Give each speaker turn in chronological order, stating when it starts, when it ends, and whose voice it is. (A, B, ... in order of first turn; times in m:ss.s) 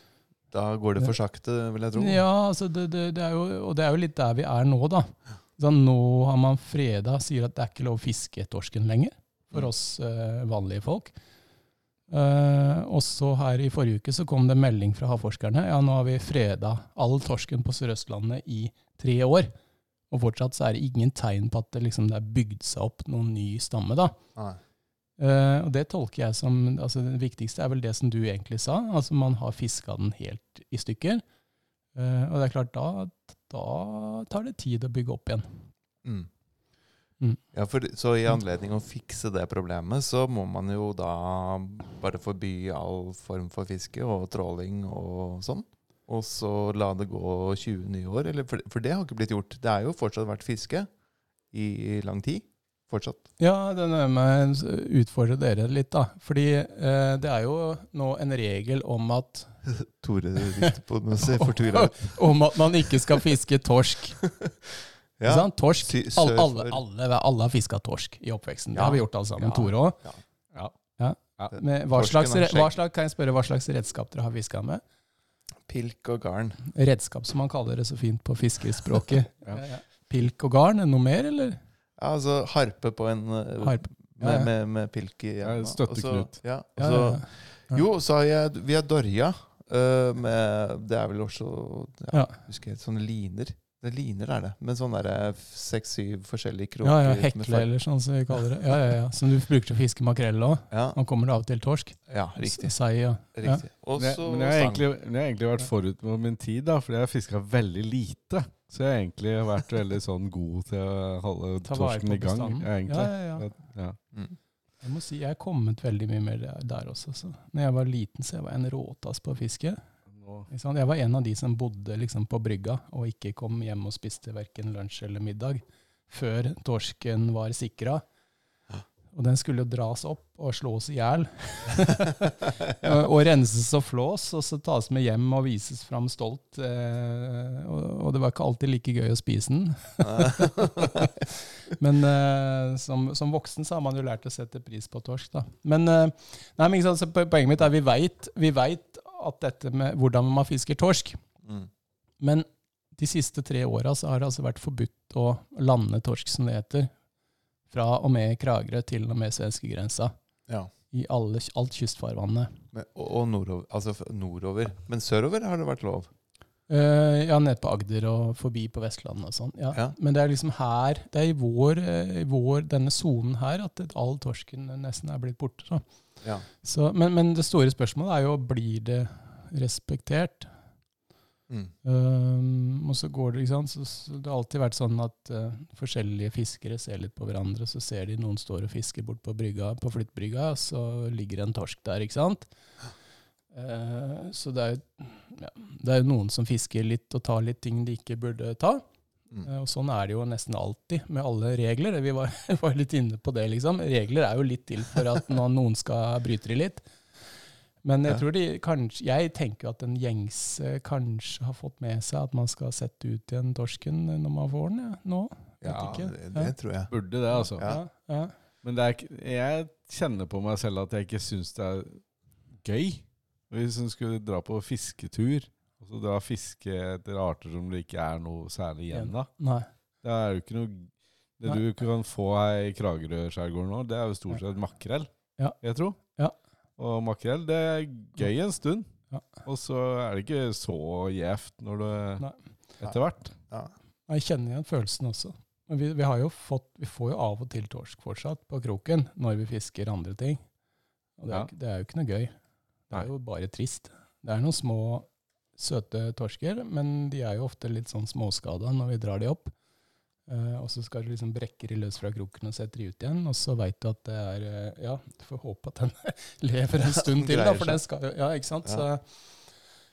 0:00.5-0:02.2 A
0:02.0-0:11.1 B
0:12.1-0:19.5 B
0:20.1-0:24.2 B
0:25.2-0:31.2 B
0:32.0-0:35.7 B
0:36.0-0:36.3 A
0:37.5-0:50.9 A
0:51.5-0:53.2 A
0:53.4-0:59.5 B
0:59.6-1:02.2 A
1:01.2-1:04.2 B
1:04.2-1:04.5 A
1:05.2-1:06.8 A
1:05.2-1:10.0 B
1:08.7-1:10.2 A
1:11.0-1:14.8 B
1:11.5-1:12.7 A
1:15.7-1:16.6 A
1:16.7-1:21.6 B
1:22.0-1:37.7 A
1:23.6-1:24.5 B
1:25.4-1:26.4 C
1:26.8-1:27.8 B
1:32.1-1:32.4 B
1:36.8-1:43.6 B
1:40.7-1:41.0 A
1:42.1-1:42.8 A
1:43.3-1:44.8 A
1:44.0-1:54.0 C
1:51.6-1:53.5 B
1:54.8-1:59.8 B
2:00.1-2:00.5 C
2:00.5-2:08.0 B
2:09.1-2:31.2 B
2:20.0-2:21.1 A
2:32.2-2:36.9 B
2:37.7-2:40.1 B
2:40.9-2:42.5 B
2:42.7-2:46.1 A
2:46.7-2:55.8 B
2:56.6-3:00.5 B
3:01.8-3:12.5 B
3:13.5-3:18.8 B
3:19.4-3:26.8 B
3:27.8-3:36.5 B
3:35.6-3:36.9 A
3:36.9-3:37.8 C
3:37.3-3:38.3 B
3:38.6-3:49.3 C
3:48.9-3:49.7 B
3:50.0-3:55.1 C
3:55.6-3:56.0 C
3:56.8-3:58.9 C
3:59.4-4:02.2 C
4:02.8-4:03.4 C
4:04.1-4:10.4 B
4:11.2-4:12.3 B
4:12.9-4:19.5 B
4:20.3-4:29.0 B
4:26.8-4:27.8 A